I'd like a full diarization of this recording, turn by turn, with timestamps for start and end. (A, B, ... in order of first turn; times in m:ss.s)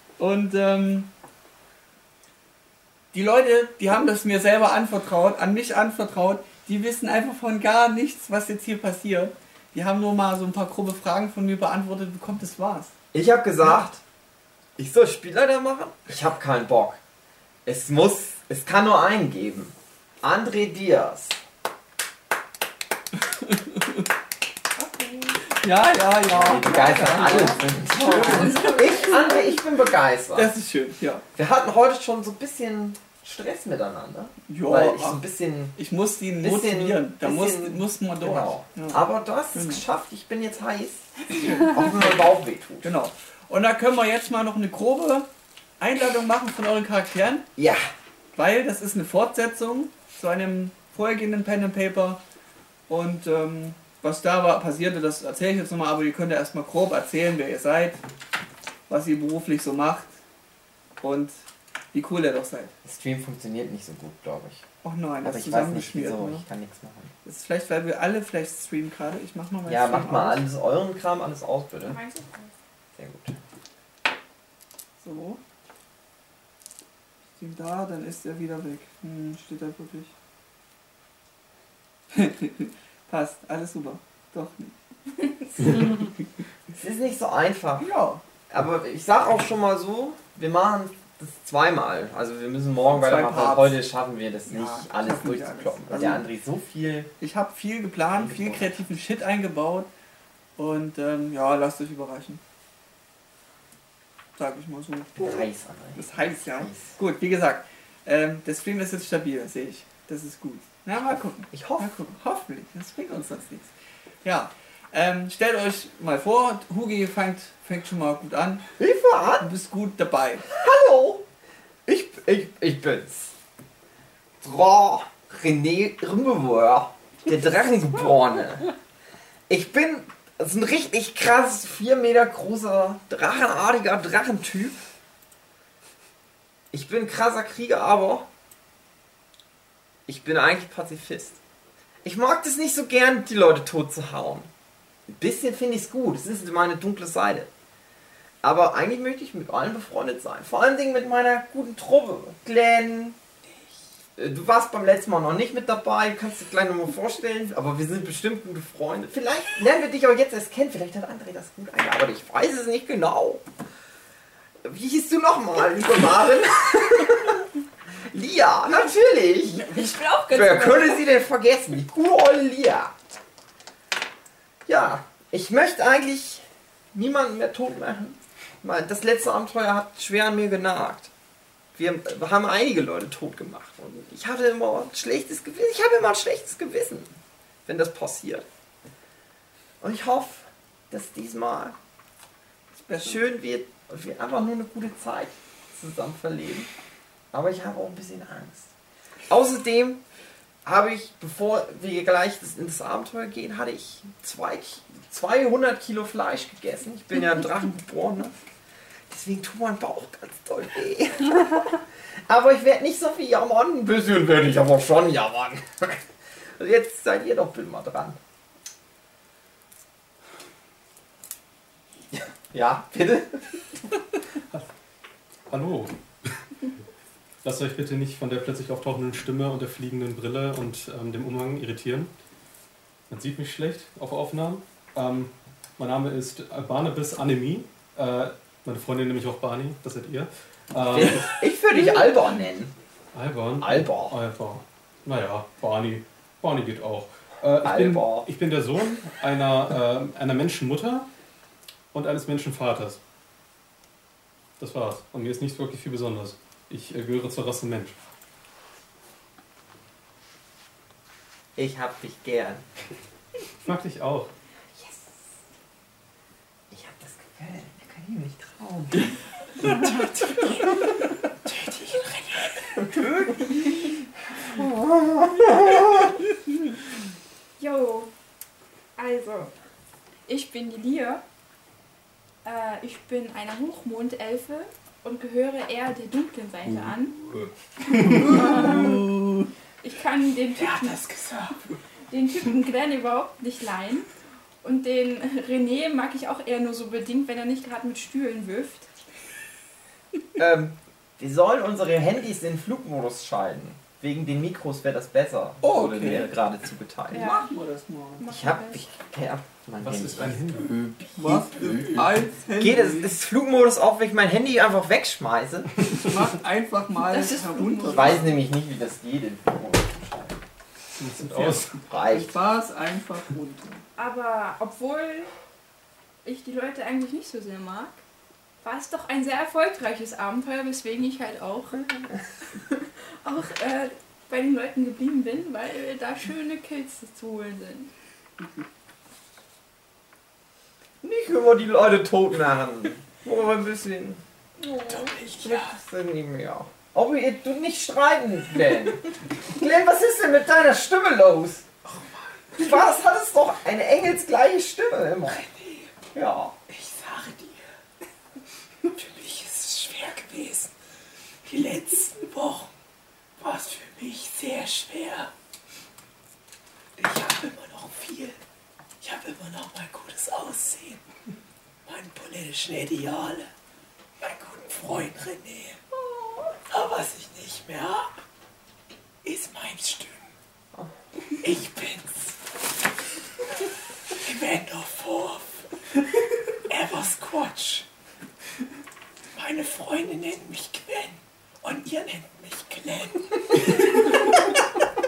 0:00.2-0:01.1 A
0:03.1-0:12.9 A
0:13.1-0:14.0 B
0:13.6-0:13.9 A
0:14.8-0:17.0 B
0:17.7-0:21.4 B
0:23.2-0:24.0 A
0:24.8-0:25.4 C
0:25.6-0:29.1 A
0:26.3-0:30.5 B
0:26.6-0:29.6 C
0:30.4-0:31.2 A
0:31.3-0:35.8 B
0:34.5-0:39.8 A
0:36.4-0:42.9 B
0:41.3-0:42.3 A
0:42.8-0:45.3 A
0:45.8-0:47.5 A
0:47.6-0:47.9 B
0:48.4-0:52.2 A
0:52.9-0:58.0 A
0:58.9-1:00.1 A
1:01.0-1:01.4 A
1:01.9-1:02.7 A
1:02.8-1:04.6 B
1:04.8-1:06.4 A
1:05.2-1:07.1 B
1:07.2-1:10.4 A
1:09.7-1:12.0 B
1:11.8-1:12.6 C
1:13.0-1:13.4 B
1:15.0-1:15.4 A
1:17.3-1:20.1 A
1:22.1-1:24.8 A
1:26.8-1:27.9 B
1:27.8-1:28.2 A
1:28.5-1:37.1 B
1:32.9-1:33.8 A
1:34.5-1:36.3 A
1:37.2-1:39.9 A
1:38.1-1:38.8 B
1:40.6-1:42.4 A
1:44.4-1:53.7 A
1:45.2-1:47.0 B
1:51.5-1:51.9 B
1:54.2-1:58.7 A
1:58.8-1:59.5 B
1:59.4-2:00.4 A
2:00.5-2:01.2 B
2:01.9-2:03.3 B
2:04.4-2:08.7 B
2:09.5-2:14.8 B
2:16.7-2:18.3 B
2:20.1-2:21.4 B
2:22.0-2:24.5 B
2:25.1-2:27.5 B
2:28.4-2:33.2 B
2:34.2-2:43.4 B
2:44.6-2:47.5 B
2:48.1-2:53.0 B
2:49.4-2:51.0 C
2:54.7-3:01.1 B
3:01.8-3:08.4 B
3:09.8-3:11.8 B
3:12.7-3:13.2 A
3:13.0-3:16.7 B
3:17.3-3:18.7 B
3:19.3-3:20.0 B
3:20.6-3:28.3 B
3:29.1-3:36.0 B
3:36.6-3:38.2 B
3:42.1-3:43.4 B
3:45.5-3:45.9 D
3:47.4-3:52.1 D
3:53.1-4:01.4 D
4:00.9-4:02.7 B
4:03.1-4:11.1 D
4:03.6-4:04.2 B
4:07.6-4:08.3 B
4:11.9-4:13.0 D
4:14.6-4:18.0 D
4:21.6-4:22.6 B
4:23.6-4:24.3 D
4:26.7-4:29.2 B
4:29.6-4:30.8 E
4:31.4-4:32.5 E
4:32.7-4:33.3 B
4:33.0-4:33.3 A
4:34.5-4:36.2 B
4:37.6-4:38.1 C
4:39.0-4:39.5 C
4:40.3-4:41.2 C
4:42.4-4:47.2 C
4:47.9-4:49.0 C
4:48.2-4:49.5 A
4:49.8-4:51.0 C
4:50.6-4:51.7 E
4:52.1-4:54.1 C
4:54.6-4:58.9 C
5:00.4-5:07.3 B
5:05.6-5:06.4 A
5:07.1-5:08.3 A
5:07.1-5:07.5 C
5:08.2-5:08.8 C
5:08.3-5:10.4 B
5:09.8-5:10.7 D
5:10.5-5:12.2 E
5:11.2-5:13.2 A
5:12.6-5:15.9 B
5:15.9-5:18.3 A
5:17.0-5:18.4 C
5:17.9-5:20.4 B
5:21.0-5:21.7 D
5:21.3-5:23.8 A
5:21.7-5:22.3 B
5:24.0-5:25.3 C
5:26.2-5:28.0 C
5:28.6-5:32.1 C
5:32.6-5:37.9 C
5:41.0-5:44.2 B
5:44.6-5:45.2 C
5:44.9-5:45.8 E
5:45.4-5:51.7 B
5:51.8-5:52.7 E
5:52.5-5:55.4 B
5:55.3-5:55.9 E
5:56.1-5:56.6 B
5:56.7-5:57.7 E
5:58.8-6:00.7 E
6:01.4-6:02.7 E
6:03.4-6:05.3 E
6:07.0-6:08.4 E
6:09.0-6:11.0 E
6:11.9-6:13.5 E
6:14.2-6:15.8 E
6:16.7-6:18.1 E
6:19.2-6:20.4 E
6:21.4-6:22.4 E
6:24.1-6:25.7 E
6:26.7-6:27.9 E
6:29.3-6:34.1 E